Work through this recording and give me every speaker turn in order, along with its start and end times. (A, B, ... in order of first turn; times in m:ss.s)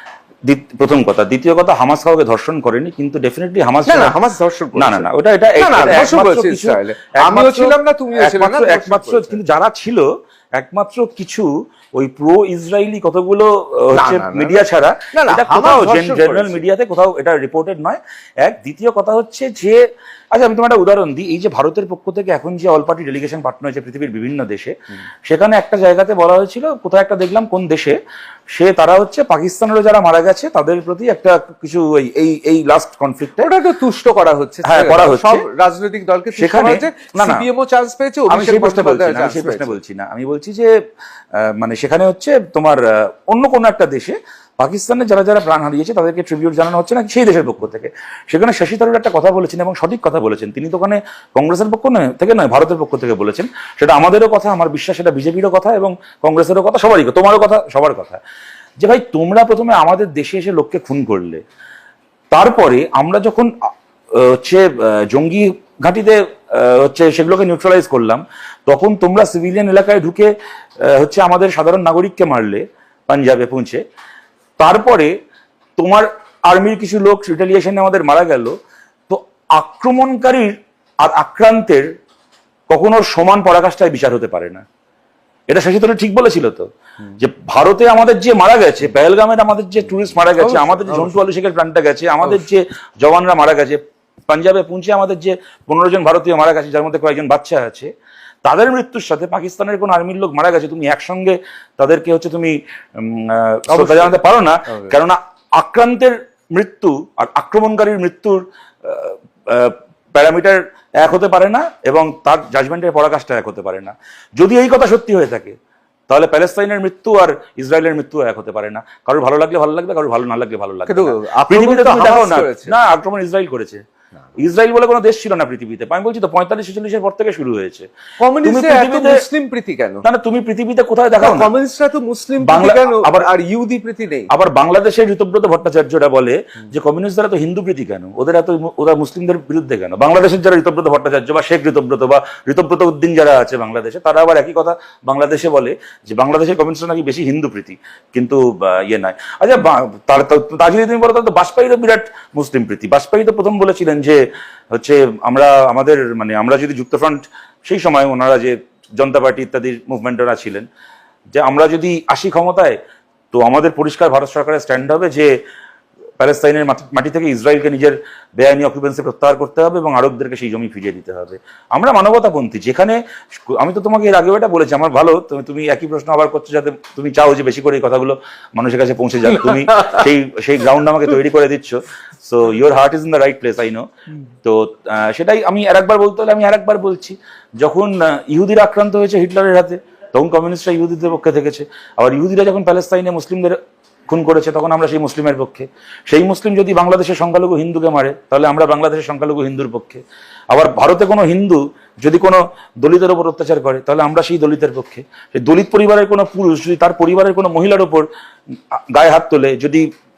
0:00.4-0:04.2 A
0:03.9-0:09.4 B
0:04.8-0:10.0 A
0:10.6-0:19.8 A
0:13.9-0:16.6 B
0:20.3-0:24.7 A
0:25.3-0:28.0 A
0:28.6-0:33.5 A
0:33.4-0:39.8 B
0:34.6-0:35.4 A
0:36.4-0:37.4 A
0:38.3-0:40.7 A
0:41.5-0:58.2 A
0:58.8-1:01.4 A
1:02.3-1:03.5 A
1:04.2-1:10.3 A
1:10.9-1:13.8 A
1:14.6-1:15.1 A
1:15.8-1:18.6 A
1:19.1-1:21.8 A
1:22.7-1:24.6 A
1:25.5-1:26.7 A
1:27.2-1:37.9 A
1:30.4-1:31.2 B
1:38.4-1:55.6 A
1:43.7-1:44.2 B
1:56.1-2:03.8 A
2:00.9-2:02.8 B
2:04.4-2:07.9 A
2:08.2-2:10.0 B
2:08.4-2:09.2 A
2:10.0-2:11.5 A
2:11.2-2:14.3 B
2:12.4-2:13.3 A
2:14.3-2:34.2 A
2:34.8-2:40.7 A
2:41.3-2:42.8 A
2:43.3-2:45.3 A
2:46.2-2:53.0 A
2:53.6-3:03.8 A
3:04.4-3:13.6 A
3:14.1-3:28.1 A
3:28.9-3:29.9 A